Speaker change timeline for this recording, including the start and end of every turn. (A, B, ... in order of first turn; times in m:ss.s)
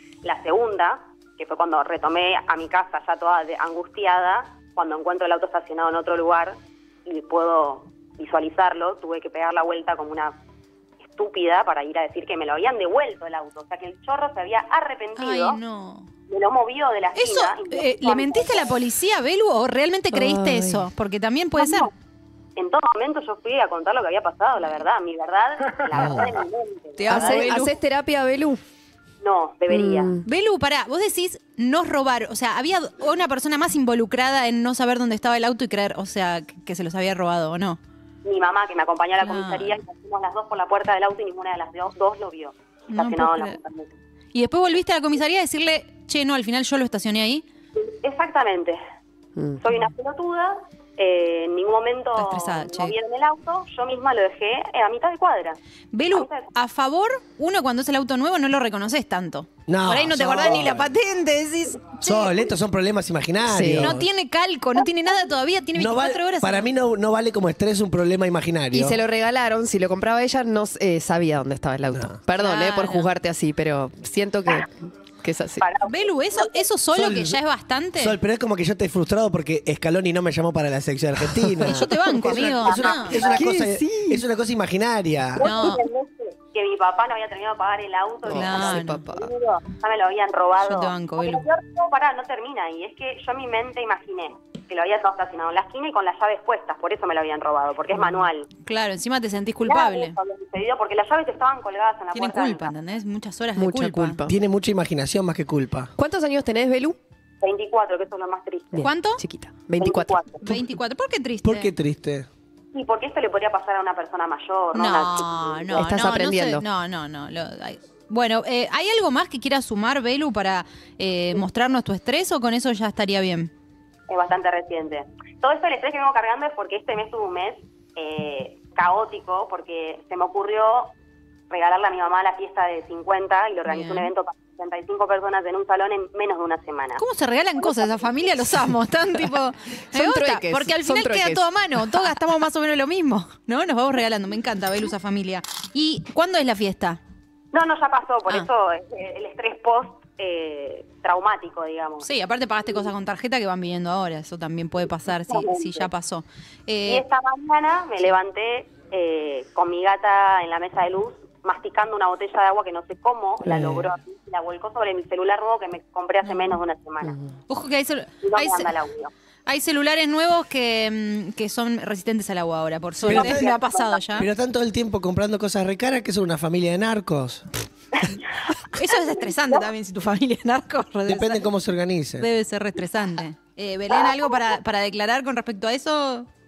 0:00.2-0:10.3 A
0:11.1-0:15.6 A
0:15.2-0:16.1 B
0:16.3-0:18.8 A
0:17.2-0:21.9 B
0:20.1-0:20.9 C
0:21.6-0:21.9 A
0:22.6-0:27.4 A
0:25.9-0:26.3 D
0:27.0-0:28.6 C
0:27.1-0:27.8 B
0:29.2-0:30.1 A
0:29.7-0:30.2 C
0:30.2-0:37.8 B
0:38.2-0:43.9 A
0:39.2-0:39.8 B
0:42.9-0:43.6 B
0:44.3-0:47.4 B
0:47.8-0:48.8 A
0:49.4-0:49.7 C
0:49.6-0:55.6 A
0:52.2-0:52.9 B
0:55.9-1:02.4 B
0:56.1-0:56.5 A
0:59.7-1:00.9 D
1:02.0-1:04.1 D
1:03.4-1:03.9 C
1:03.8-1:06.7 B
1:05.8-1:09.0 D
1:08.7-1:15.7 C
1:11.9-1:12.2 D
1:12.3-1:13.1 B
1:15.6-1:16.6 A
1:15.8-1:18.2 B
1:16.9-1:17.4 D
1:18.0-1:25.5 D
1:21.6-1:23.2 B
1:22.2-1:23.5 A
1:23.2-1:24.2 C
1:25.4-1:38.5 A
1:25.4-1:25.8 B
1:28.2-1:29.3 C
1:28.3-1:29.1 B
1:30.6-1:31.4 B
1:38.6-1:40.2 B
1:39.6-1:42.7 A
1:42.1-1:44.2 B
1:43.6-1:44.3 C
1:44.3-1:45.9 D
1:46.0-1:47.0 C
1:47.4-1:48.9 A
1:48.7-1:50.2 C
1:48.8-1:49.2 B
1:49.8-1:50.4 A
1:50.4-1:51.7 B
1:51.4-1:52.3 D
1:52.7-1:55.9 A
1:54.7-2:03.5 B
1:55.7-1:56.7 C
2:04.1-2:10.9 A
2:11.5-2:17.0 A
2:13.6-2:14.1 B
2:17.0-2:27.0 B
2:19.9-2:21.4 C
2:27.5-2:32.1 A
2:32.0-2:37.0 B
2:35.3-2:35.9 A
2:36.8-2:47.2 A
2:43.4-2:43.9 C
2:46.3-2:46.6 B
2:47.0-2:47.3 C
2:47.5-2:48.7 B
2:48.2-2:49.1 A
2:49.5-2:54.3 B
2:53.1-2:53.5 D
2:53.1-2:54.0 A
2:54.2-2:57.5 D
2:58.7-3:01.4 B
3:01.1-3:02.3 D
3:02.2-3:06.3 B